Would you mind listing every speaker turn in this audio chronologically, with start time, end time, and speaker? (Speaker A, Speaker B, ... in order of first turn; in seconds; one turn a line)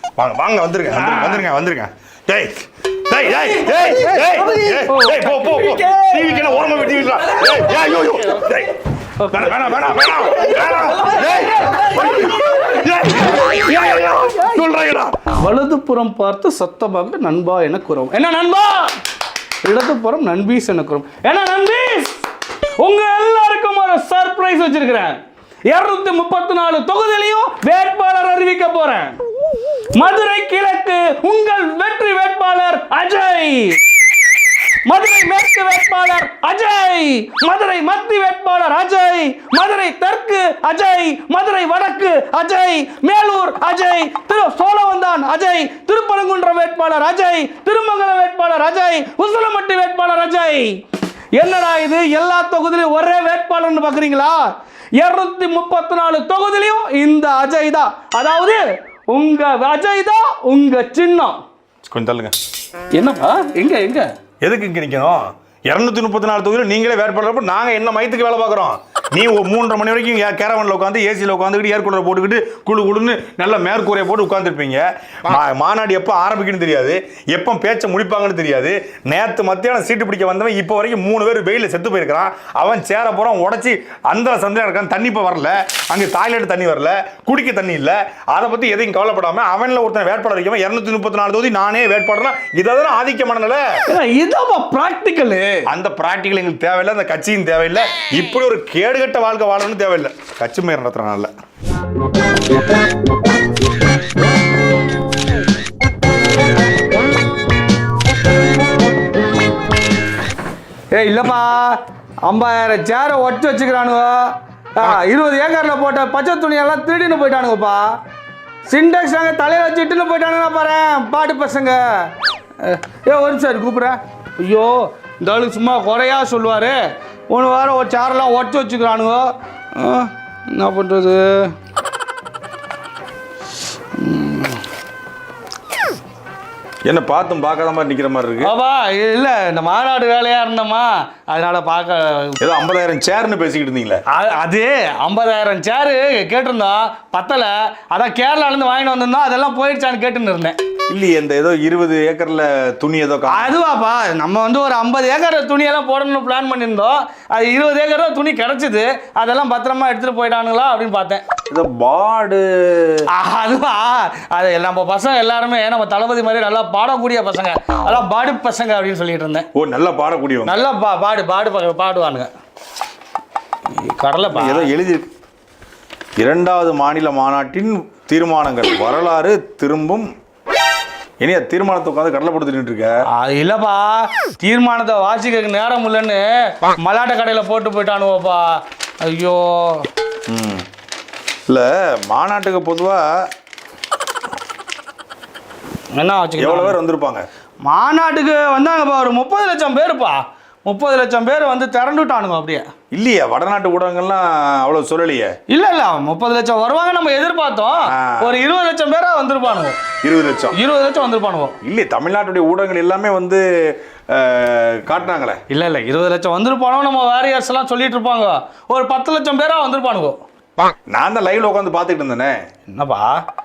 Speaker A: 0.2-8.8
Speaker B: 0.9-1.4
Speaker B: 3.5-6.7
Speaker B: 7.3-7.6
Speaker B: 9.2-19.0
Speaker A: 9.3-15.1
Speaker B: 19.6-22.2
Speaker B: 22.8-29.2
Speaker B: 29.9-33.8
Speaker B: 34.8-50.8
Speaker B: 51.3-61.4
Speaker A: 61.9-62.4
Speaker B: 62.9-64.1
Speaker A: 64.4-93.7
Speaker B: 93.9-95.7
Speaker A: 95.7-101.3
Speaker B: 110.9-118.0
Speaker B: 118.7-131.5
Speaker B: 133.9-134.6
Speaker A: 136.8-138.5
Speaker B: 138.4-142.4
Speaker A: 142.4-144.0
Speaker B: 144.1-150.6
Speaker A: 150.9-153.6
Speaker B: 153.3-161.2
Speaker A: 161.5-163.1
Speaker B: 163.1-169.5
Speaker A: 169.5-170.6
Speaker B: 170.4-172.3
Speaker B: 173.8-174.7
Speaker A: 174.3-175.1
Speaker A: 176.2-180.1
Speaker A: 181.2-182.9
Speaker B: 183.1-189.9
Speaker A: 190.3-190.7
Speaker A: 191.5-193.1
Speaker B: 195.9-196.8
Speaker A: 196.4-197.3
Speaker B: 197.6-202.7
Speaker A: 202.9-205.3
Speaker B: 205.5-209.8
Speaker A: 207.9-208.4
Speaker A: 210.0-210.6
Speaker B: 210.5-211.6
Speaker A: 211.6-215.4
Speaker B: 215.5-220.2
Speaker A: 220.9-222.4
Speaker B: 222.7-223.2